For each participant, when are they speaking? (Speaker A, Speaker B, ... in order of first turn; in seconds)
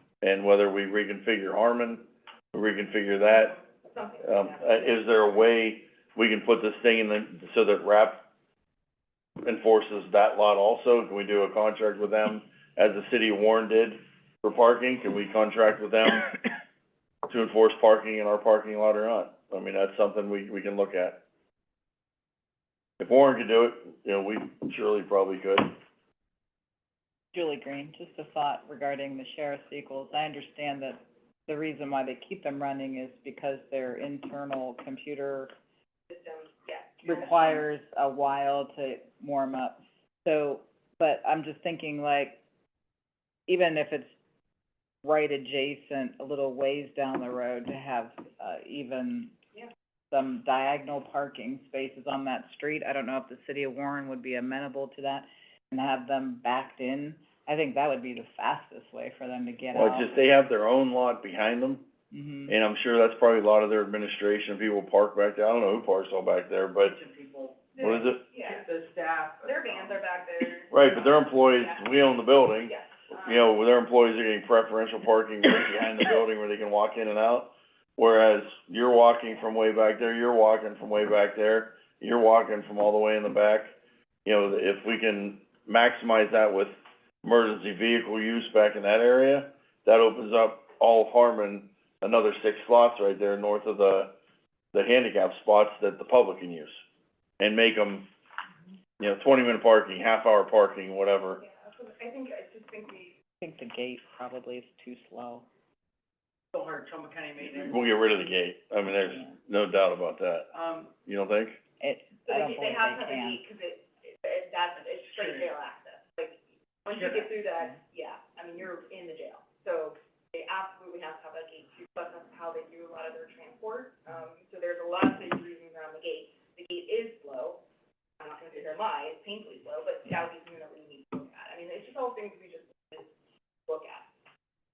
Speaker A: 0.2-3.5, 4.2-8.2, 9.4-16.3, 17.3-21.2, 23.0-25.7, 59.7-61.8, 62.5-67.0, 67.8-68.2, 70.7-83.7, 84.2-94.1, 94.7-96.8, 97.4-98.1, 99.0-101.4, 107.4-110.5, 111.0-111.6
Speaker B: 3.8-5.1, 36.1-37.6, 67.8-68.6, 69.4-71.9, 72.5-73.5, 101.4-103.2, 112.2-127.6, 128.2-133.1, 133.7-134.1
Speaker C: 27.3-35.5, 37.0-42.4, 43.5-44.1, 45.0-49.3, 50.1-60.1, 62.1-62.5, 103.4-105.5, 109.0-109.3, 111.8-113.4
Speaker D: 37.0-37.6, 66.8-70.2, 106.5-107.8, 110.5-110.9, 115.1-115.5, 116.9-117.4